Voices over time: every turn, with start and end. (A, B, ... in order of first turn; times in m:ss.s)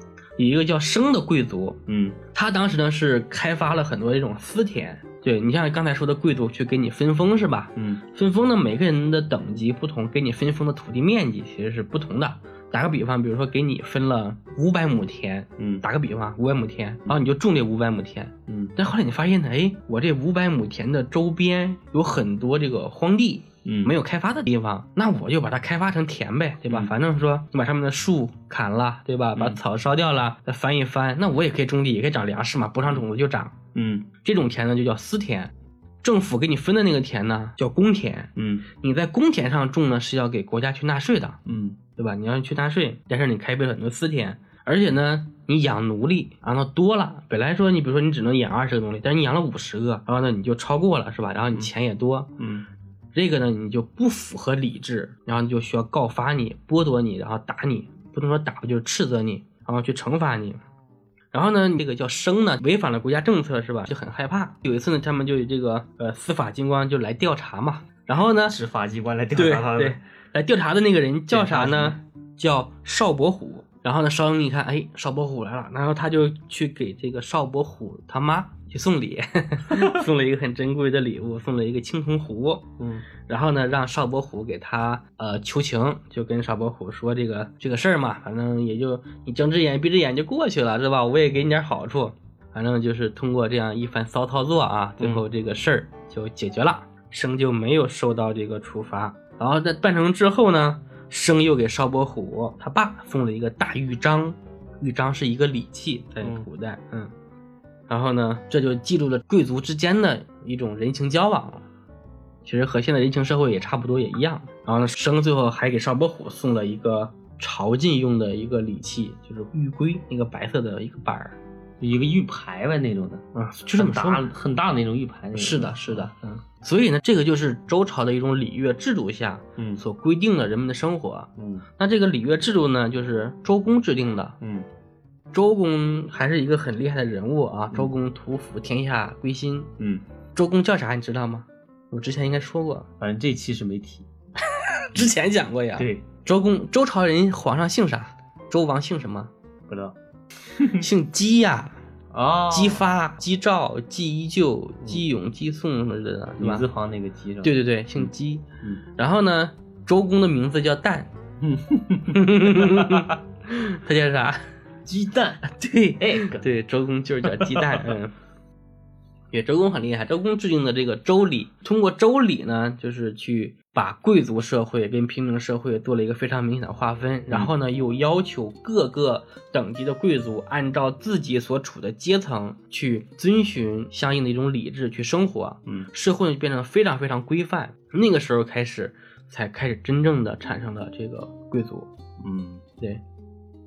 0:00.4-0:33.6 A
0:01.9-0:02.2 B
0:15.6-0:15.8 B
0:18.5-0:18.7 B
0:23.6-0:23.9 B
0:33.7-0:34.0 B
0:34.2-0:35.5 A
0:36.0-0:41.4 A
0:38.4-0:38.6 B
0:41.4-0:41.8 B
0:42.0-0:52.3 A
0:52.4-0:52.6 B
0:53.1-1:00.6 A
1:01.3-1:08.6 A
1:08.4-1:10.0 B
1:09.3-1:47.1 A
1:11.3-1:12.0 B
1:19.7-1:20.0 B
1:22.8-1:23.1 B
1:46.2-1:46.4 B
1:47.9-1:51.6 A
1:52.4-2:01.4 A
2:01.8-2:03.2 B
2:03.3-2:04.3 A
2:03.8-2:06.1 B
2:05.3-2:14.4 A
2:11.4-2:11.6 B
2:14.4-2:14.7 B
2:15.3-2:19.7 A
2:20.3-2:22.9 A
2:23.0-2:24.1 B
2:24.5-2:29.3 A
2:25.8-2:26.0 B
2:29.7-2:30.0 B
2:30.6-2:30.9 B
2:30.6-2:31.8 A
2:32.1-2:32.8 B
2:32.5-2:36.7 A
2:36.4-2:38.1 B
2:37.4-2:38.4 A
2:39.0-2:41.1 A
2:41.4-2:43.2 B
2:42.1-2:44.5 A
2:44.8-2:46.5 B
2:45.4-2:48.1 A
2:47.2-2:48.0 B
2:49.3-3:11.9 A
3:12.2-3:12.6 B